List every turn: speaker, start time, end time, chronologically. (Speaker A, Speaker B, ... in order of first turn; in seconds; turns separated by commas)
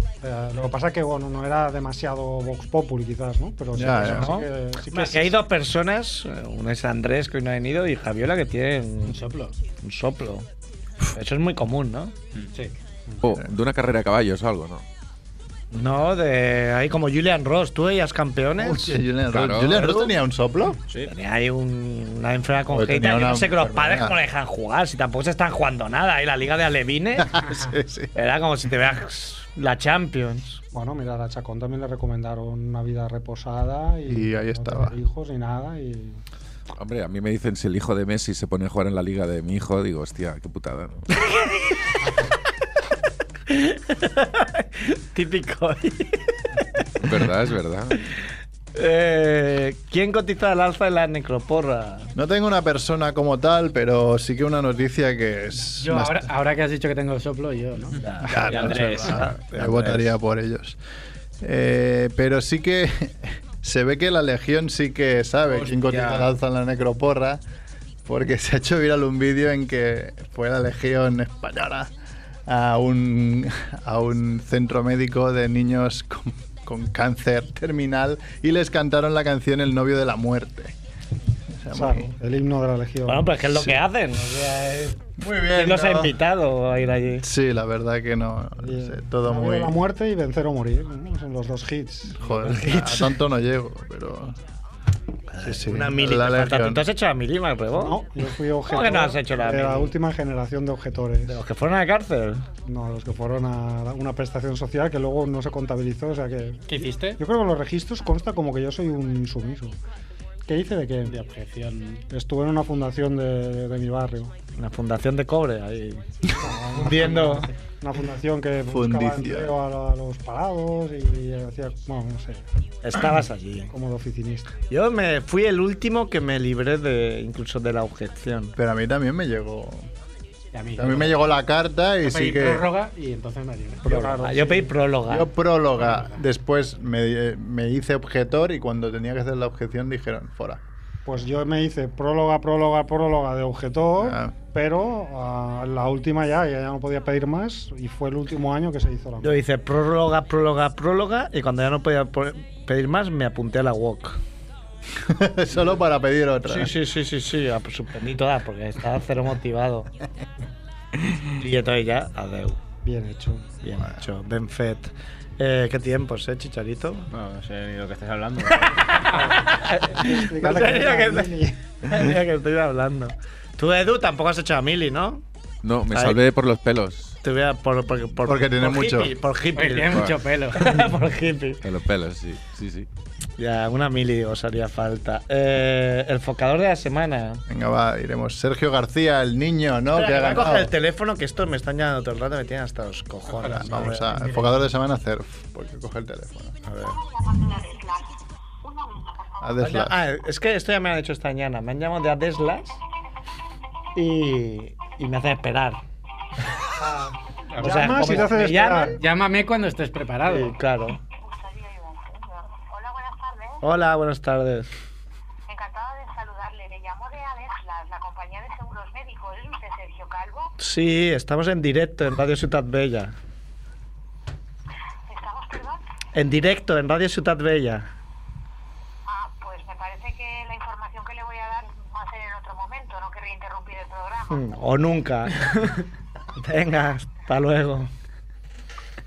Speaker A: 0.2-5.4, Speaker B: 3.7-4.3, Speaker C: 4.1-9.2, Speaker D: 9.1-9.5, Speaker C: 9.8-10.4, Speaker C: 11.1-12.1, Speaker E: 13.2-14.8, Speaker C: 15.7-19.0, Speaker B: 18.6-20.8, Speaker E: 19.3-19.8, Speaker C: 21.1-27.4, Speaker B: 22.7-24.2, Speaker B: 27.2-28.1, Speaker C: 28.1-30.6, Speaker A: 30.7-36.2, Speaker B: 34.1-34.9, Speaker E: 36.8-41.0, Speaker C: 41.1-41.8, Speaker C: 43.5-46.3, Speaker E: 47.0-48.0, Speaker C: 48.7-52.1, Speaker B: 52.1-56.3, Speaker D: 55.8-58.0, Speaker C: 58.0-60.1, Speaker B: 58.2-60.8, Speaker F: 58.3-59.2, Speaker B: 61.4-67.4, Speaker F: 65.5-66.3, Speaker B: 68.0-71.9, Speaker B: 72.5-80.7, Speaker B: 81.6-82.1, Speaker A: 81.7-83.4, Speaker C: 83.0-87.2, Speaker B: 85.2-86.2, Speaker B: 87.2-89.8, Speaker A: 88.6-92.2, Speaker B: 92.2-94.4, Speaker C: 92.3-93.2, Speaker B: 95.4-96.8, Speaker C: 95.4-98.0, Speaker A: 97.8-101.4, Speaker C: 98.7-99.9, Speaker C: 101.2-102.4, Speaker A: 102.7-106.7, Speaker D: 106.7-107.2, Speaker A: 107.2-109.7, Speaker A: 110.5-111.1, Speaker D: 111.0-112.0, Speaker A: 112.1-114.3, Speaker C: 114.5-116.0, Speaker A: 116.4-122.4, Speaker C: 116.8-117.5, Speaker D: 117.0-117.4, Speaker B: 118.7-119.5, Speaker C: 122.8-123.7, Speaker A: 123.7-124.5, Speaker C: 124.7-128.6, Speaker B: 128.6-129.8, Speaker D: 130.5-131.2, Speaker B: 130.8-132.7, Speaker D: 132.0-134.2, Speaker A: 133.8-134.7, Speaker C: 133.8-135.3, Speaker B: 135.1-140.6, Speaker A: 141.1-149.3, Speaker B: 144.0-144.3, Speaker C: 149.2-154.2, Speaker B: 155.0-156.7, Speaker C: 156.5-159.9, Speaker C: 161.2-162.6, Speaker A: 162.8-163.5, Speaker C: 163.6-167.1, Speaker F: 167.1-169.3, Speaker C: 168.8-175.2, Speaker A: 169.2-171.5, Speaker E: 175.6-177.1, Speaker C: 175.9-176.2, Speaker C: 177.2-181.6, Speaker B: 178.2-179.1, Speaker D: 179.5-180.7, Speaker E: 181.6-182.9, Speaker C: 183.4-187.4, Speaker B: 187.5-190.7, Speaker C: 189.9-194.1, Speaker D: 193.3-194.7, Speaker B: 193.5-196.6, Speaker C: 196.7-197.0, Speaker G: 196.8-199.7, Speaker B: 199.4-200.0, Speaker C: 199.6-202.8, Speaker C: 203.9-205.8, Speaker A: 206.8-209.0, Speaker D: 207.5-208.3, Speaker C: 207.6-209.0, Speaker D: 208.9-210.6, Speaker C: 210.2-211.0, Speaker G: 211.1-213.6, Speaker C: 213.6-214.7, Speaker G: 215.5-220.5, Speaker C: 220.6-223.1, Speaker G: 225.1-225.8, Speaker C: 226.1-227.9, Speaker G: 229.1-234.6, Speaker C: 234.3-237.9